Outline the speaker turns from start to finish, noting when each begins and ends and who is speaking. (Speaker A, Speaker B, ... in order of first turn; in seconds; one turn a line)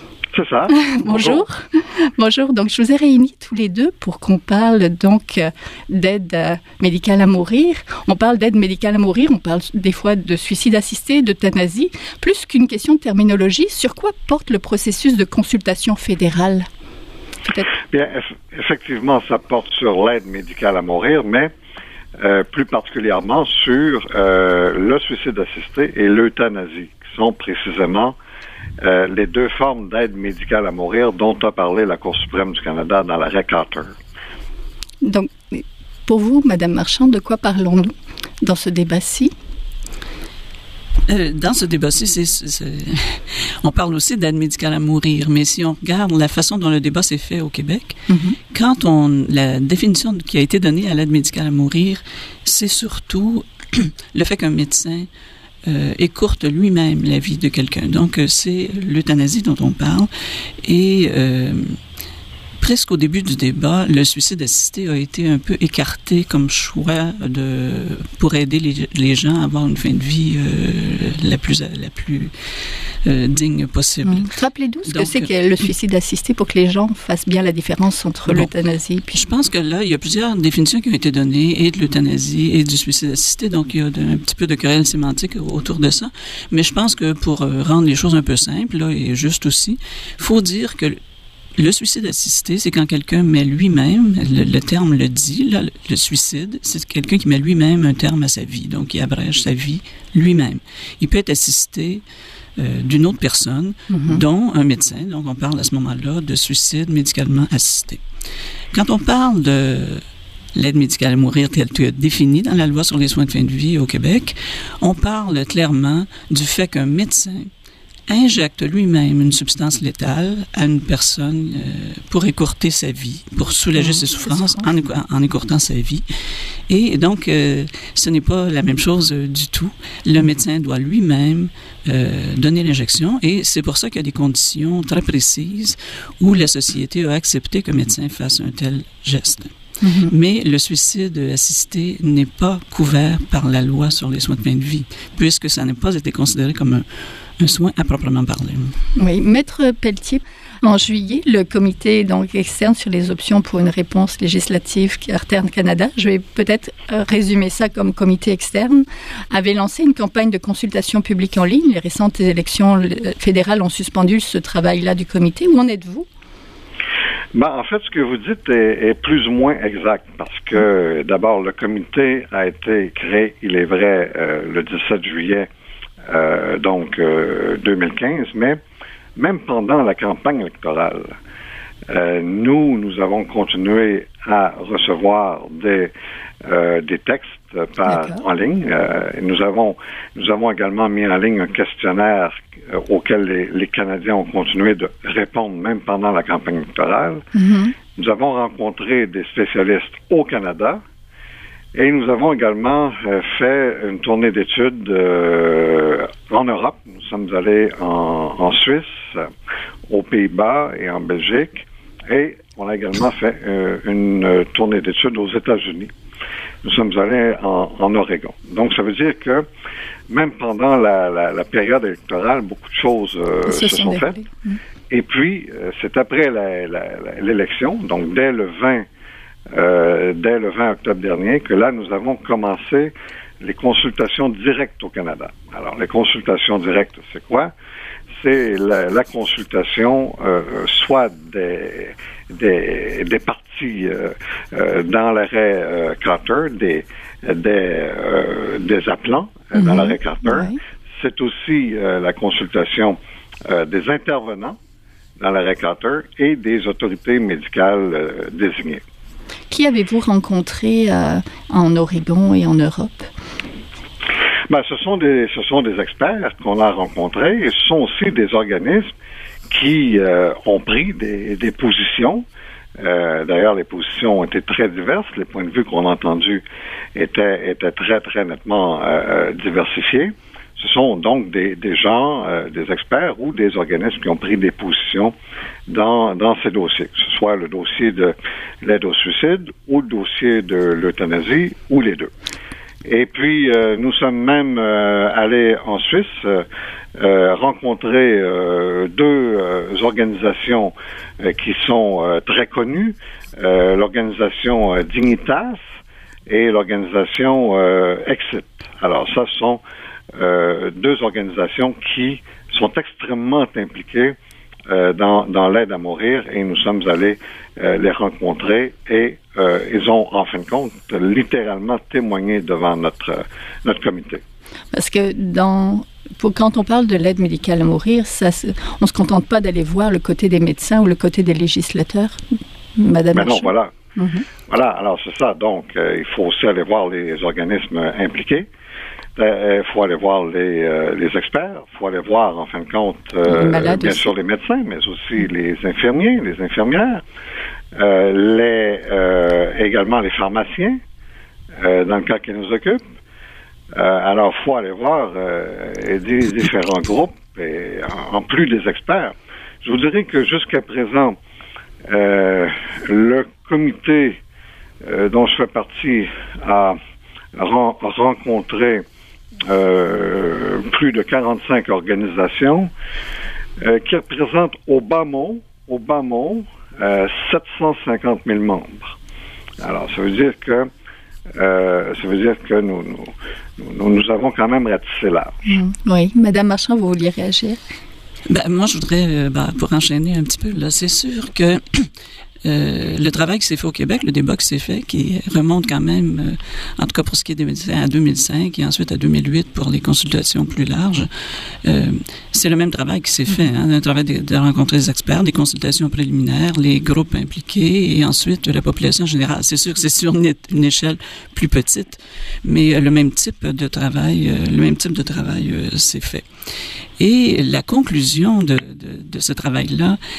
Speaker A: 0.3-1.4
Speaker B: 0.7-16.7
Speaker A: 17.9-21.5
Speaker A: 22.2-28.1
Speaker A: 28.8-33.9
Speaker B: 35.0-39.3
Speaker C: 41.1-55.1
Speaker B: 48.1-48.4
Speaker C: 55.6-60.1
Speaker C: 60.6-61.8
Speaker C: 62.6-72.3
Speaker C: 73.0-74.3
Speaker B: 74.0-79.2
Speaker C: 74.9-75.2
Speaker C: 79.1-91.0
Speaker C: 91.5-102.0
Speaker C: 102.5-108.0
Speaker B: 103.9-104.2
Speaker C: 108.7-110.0
Speaker C: 110.5-117.5
Speaker C: 118.1-126.0
Speaker B: 123.8-124.7
Speaker C: 126.7-139.5
Speaker B: 139.8-140.1
Speaker C: 140.1-146.9
Speaker C: 147.4-148.7
Speaker B: 148.9-166.1
Speaker A: 167.3-175.5
Speaker A: 176.1-178.6
Speaker A: 179.2-181.1
Speaker A: 181.9-185.9
Speaker A: 186.4-197.2
Speaker B: 187.9-188.2
Speaker B: 197.3-197.7
Speaker A: 197.9-200.8
Speaker A: 201.7-209.3
Speaker A: 209.9-215.9
Speaker A: 216.6-219.4
Speaker A: 220.1-224.2
Speaker B: 223.5-224.6
Speaker A: 224.9-228.8
Speaker A: 229.5-237.5
Speaker A: 238.1-254.6
Speaker B: 249.5-250.6
Speaker A: 255.2-258.8
Speaker B: 259.5-263.1
Speaker A: 264.5-268.9
Speaker A: 269.5-272.2
Speaker A: 272.8-276.4
Speaker A: 276.9-285.1
Speaker A: 285.7-292.1
Speaker A: 292.8-305.6
Speaker A: 306.3-309.6
Speaker A: 310.1-314.1
Speaker A: 314.7-324.2
Speaker B: 324.7-332.2
Speaker B: 332.8-334.2
Speaker A: 333.1-333.7
Speaker A: 334.5-338.5
Speaker A: 339.1-347.0
Speaker B: 343.2-344.1
Speaker A: 347.7-350.8
Speaker A: 351.6-352.8
Speaker A: 353.7-361.2
Speaker A: 361.8-364.2
Speaker A: 364.8-366.8
Speaker A: 367.3-368.8
Speaker A: 369.4-372.7
Speaker A: 373.6-378.9
Speaker A: 379.6-380.7
Speaker A: 381.3-385.4
Speaker B: 385.4-387.6
Speaker C: 388.3-391.9
Speaker C: 392.4-401.1
Speaker C: 401.6-416.2
Speaker C: 417.0-420.0